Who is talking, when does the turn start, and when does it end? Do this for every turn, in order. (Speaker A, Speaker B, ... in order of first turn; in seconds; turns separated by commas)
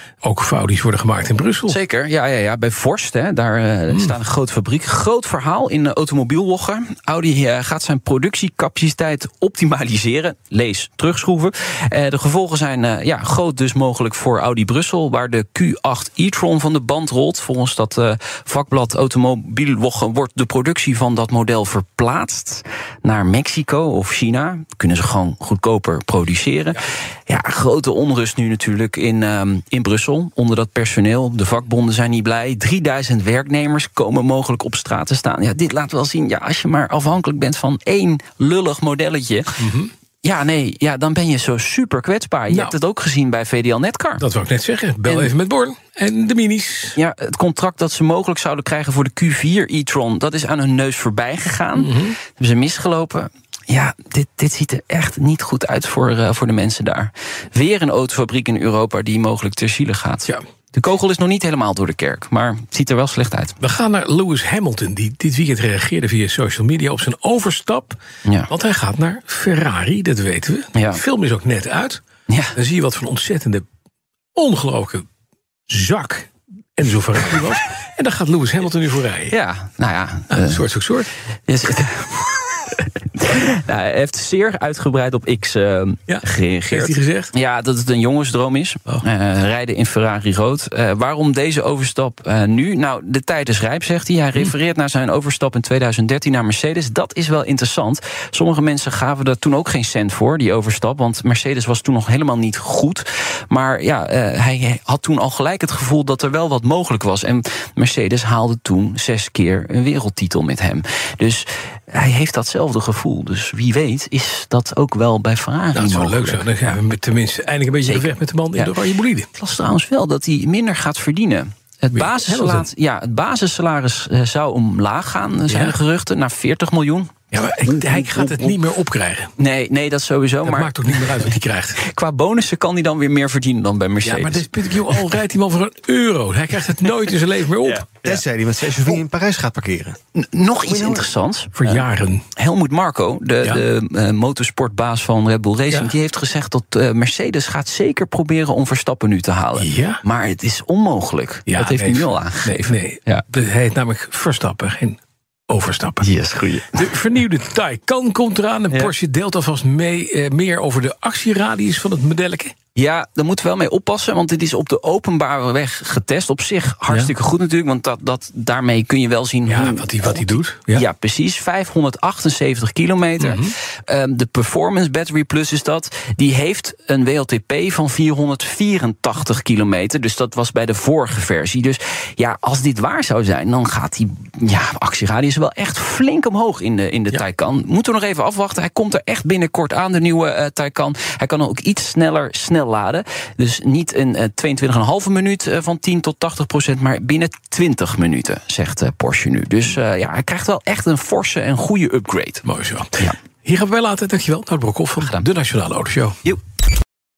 Speaker A: 0.2-1.8, Speaker B: 1.7-39.6, Speaker A: 3.9-4.2, Speaker A: 39.6-39.9, Speaker B: 40.2-44.2, Speaker A: 42.5-42.8, Speaker A: 44.2-47.0, Speaker B: 45.0-45.3, Speaker B: 46.9-63.6, Speaker A: 51.7-52.2, Speaker A: 63.6-72.0, Speaker B: 68.2-68.5, Speaker B: 70.7-71.0, Speaker B: 72.3-72.5, Speaker A: 72.5-73.6, Speaker A: 74.3-75.1, Speaker A: 75.7-79.3, Speaker B: 79.3-80.6, Speaker A: 80.3-81.1, Speaker B: 81.5-116.5, Speaker A: 86.1-87.3, Speaker A: 115.7-119.3, Speaker B: 117.8-118.7, Speaker B: 119.3-127.1, Speaker A: 121.9-122.7, Speaker A: 125.5-125.8, Speaker A: 127.3-129.3, Speaker B: 127.8-128.5, Speaker B: 129.4-135.1, Speaker A: 130.4-131.8, Speaker A: 134.0-137.9, Speaker C: 137.9-140.0, Speaker B: 140.1-153.2, Speaker C: 140.7-141.0, Speaker A: 141.6-142.2, Speaker A: 149.6-150.0, Speaker A: 151.5-156.1, Speaker B: 156.0-156.9, Speaker A: 156.7-162.5, Speaker B: 162.7-202.4, Speaker A: 169.5-170.8, Speaker A: 173.2-173.5, Speaker A: 202.4-206.2, Speaker B: 205.0-205.3